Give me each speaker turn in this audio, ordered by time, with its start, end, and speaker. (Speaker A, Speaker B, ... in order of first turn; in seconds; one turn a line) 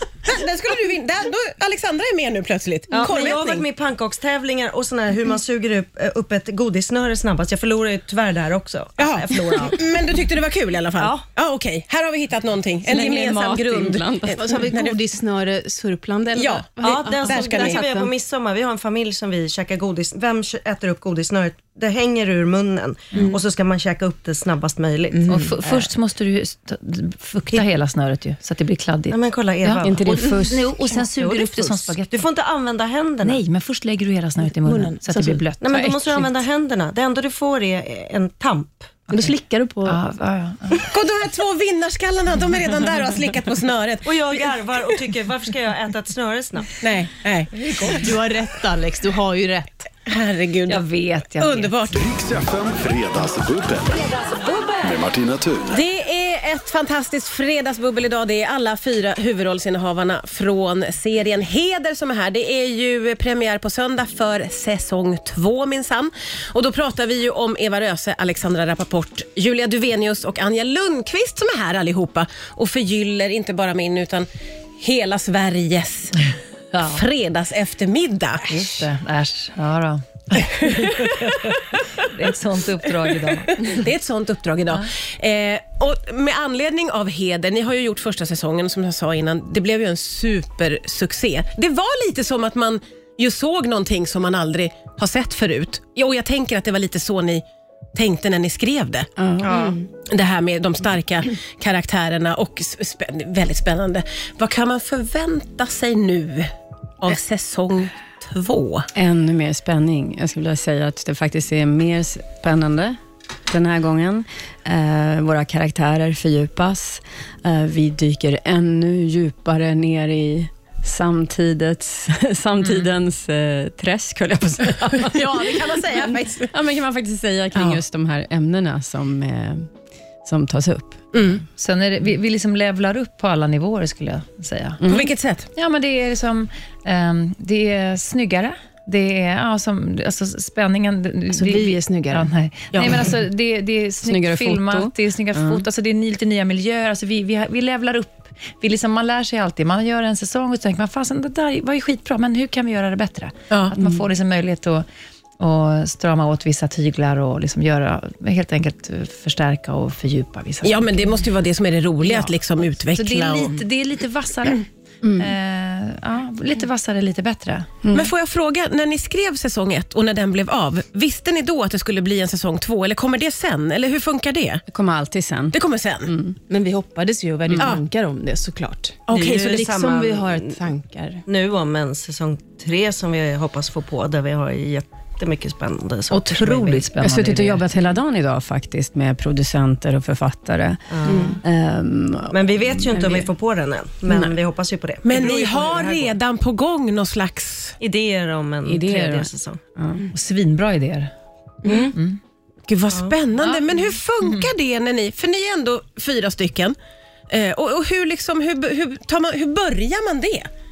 Speaker A: 0.2-3.6
Speaker B: 2.9-9.9
Speaker A: 9.0-15.0
Speaker B: 11.0-11.2
Speaker C: 12.8-14.6
Speaker D: 14.4-18.1
Speaker A: 16.3-17.8
Speaker B: 16.8-25.3
Speaker D: 25.1-25.6
Speaker E: 25.3-32.3
Speaker B: 29.1-33.4
Speaker C: 29.8-30.6
Speaker E: 33.2-36.4
Speaker D: 34.4-35.4
Speaker B: 35.6-39.0
Speaker D: 39.1-40.0
Speaker E: 39.8-40.9
Speaker A: 40.9-44.5
Speaker B: 44.0-46.8
Speaker A: 46.8-47.9
Speaker D: 47.8-49.9
Speaker A: 50.0-50.8
Speaker E: 50.7-51.9
Speaker A: 51.4-52.0
Speaker F: 51.9-55.8
Speaker A: 55.7-74.3
Speaker A: 74.8-78.8
Speaker E: 76.7-77.0
Speaker E: 78.4-83.8
Speaker A: 80.6-81.1
Speaker A: 83.5-99.1
Speaker C: 99.2-99.7
Speaker B: 99.4-99.8
Speaker D: 99.5-99.8
Speaker A: 99.9-108.9
Speaker C: 108.9-113.0
Speaker C: 113.5-129.7
Speaker A: 125.0-126.5
Speaker A: 127.5-127.8
Speaker C: 130.2-131.1
Speaker A: 131.1-131.4
Speaker E: 131.5-134.8
Speaker C: 134.8-135.1
Speaker A: 134.8-135.5
Speaker E: 135.5-154.8
Speaker D: 141.3-142.3
Speaker A: 142.7-143.0
Speaker C: 144.0-145.6
Speaker A: 153.5-153.8
Speaker E: 155.4-161.2
Speaker A: 160.6-163.6
Speaker E: 162.0-167.7
Speaker C: 167.8-168.1
Speaker A: 167.9-174.6
Speaker C: 174.7-176.4
Speaker A: 175.5-176.1
Speaker D: 176.5-181.2
Speaker C: 177.5-177.8
Speaker B: 179.1-180.6
Speaker B: 181.2-186.8
Speaker E: 186.1-187.7
Speaker C: 187.0-193.3
Speaker B: 190.9-191.4
Speaker D: 191.0-191.4
Speaker B: 192.3-196.2
Speaker C: 194.1-194.3
Speaker A: 195.0-197.8
Speaker B: 197.8-199.6
Speaker C: 198.6-200.1
Speaker E: 200.1-201.1
Speaker D: 201.6-201.9
Speaker E: 201.7-202.2
Speaker A: 202.7-206.8
Speaker B: 202.9-203.2
Speaker E: 203.4-204.5
Speaker A: 207.3-210.5